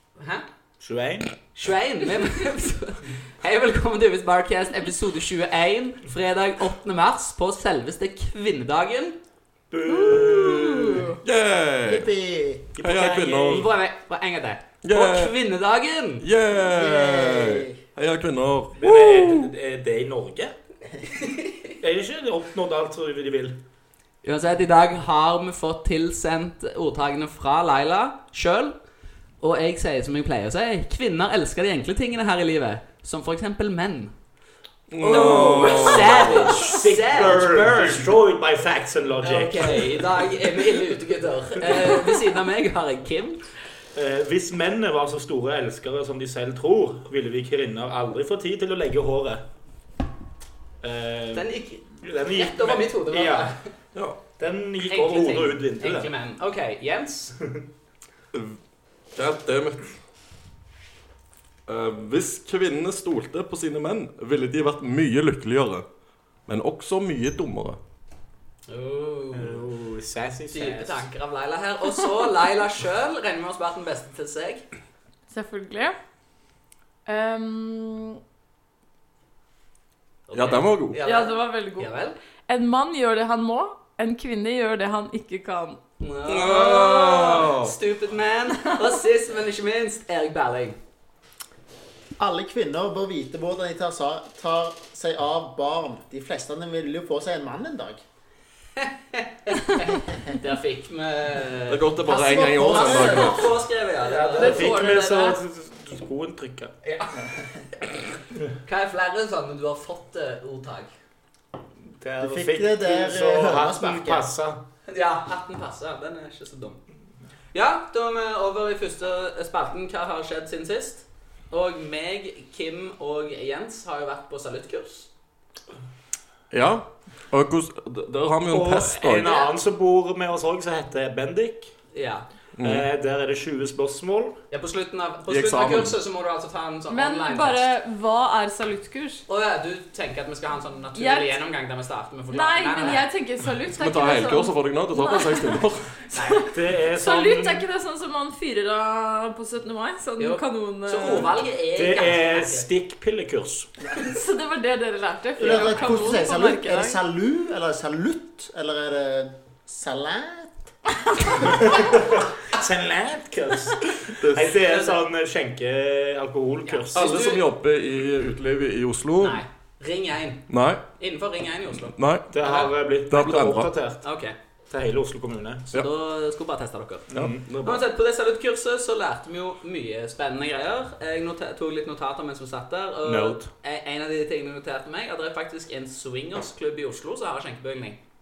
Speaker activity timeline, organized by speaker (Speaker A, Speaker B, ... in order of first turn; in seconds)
Speaker A: 0.2-0.5, 1.5-9.2, 13.5-16.2, 21.2-21.6, 24.2-28.8, 29.4-34.1, 35.0-38.1, 39.2-43.4, 51.3-53.7, 54.9-57.4, 68.7-69.7, 70.5-74.6, 80.3-82.2, 86.0-90.8, 98.8-101.9, 102.5-104.8, 106.8-107.3, 108.6-110.9, 114.9-116.8, 117.5-125.1, 131.9-132.2, 134.5-137.7, 139.3-143.1, 146.1-146.5, 150.2-152.7, 164.6-165.0, 166.6-167.5, 169.2-170.5, 171.0-172.7, 174.0-174.3, 175.7-177.1, 177.6-188.0
Speaker B: 0.8-1.3, 9.7-11.1, 12.8-13.7, 18.8-20.5, 21.8-23.6, 35.0-39.9, 43.9-49.4, 50.8-51.5, 52.0-53.5, 54.4-56.1, 69.3-71.0, 104.0-106.7, 112.0-114.6, 128.5-131.7, 132.6-134.4, 146.5-147.6, 151.7-153.7, 161.7-167.1, 172.3-174.0, 174.7-175.7, 177.1-177.5, 183.0-183.5
Speaker C: 9.8-11.2, 75.3-76.0, 77.0-78.2, 81.0-85.8, 104.3-105.4, 136.9-139.2, 140.9-141.4, 142.3-151.4, 153.9-157.0
Speaker D: 11.2-12.1, 12.8-13.7, 14.8-15.3, 16.2-19.5, 34.9-36.8, 59.1-60.0, 61.7-65.8, 66.5-67.8, 80.3-81.0, 86.3-87.7, 101.7-103.5, 126.5-129.5, 132.6-132.9, 135.3-135.9, 143.8-145.9, 164.2-164.6, 166.9-169.4, 170.5-170.8, 171.8-172.3, 173.1-173.7, 177.1-177.8
Speaker E: 11.8-12.7, 16.6-17.8, 92.2-98.0, 102.1-103.4, 112.2-114.3, 155.4-160.7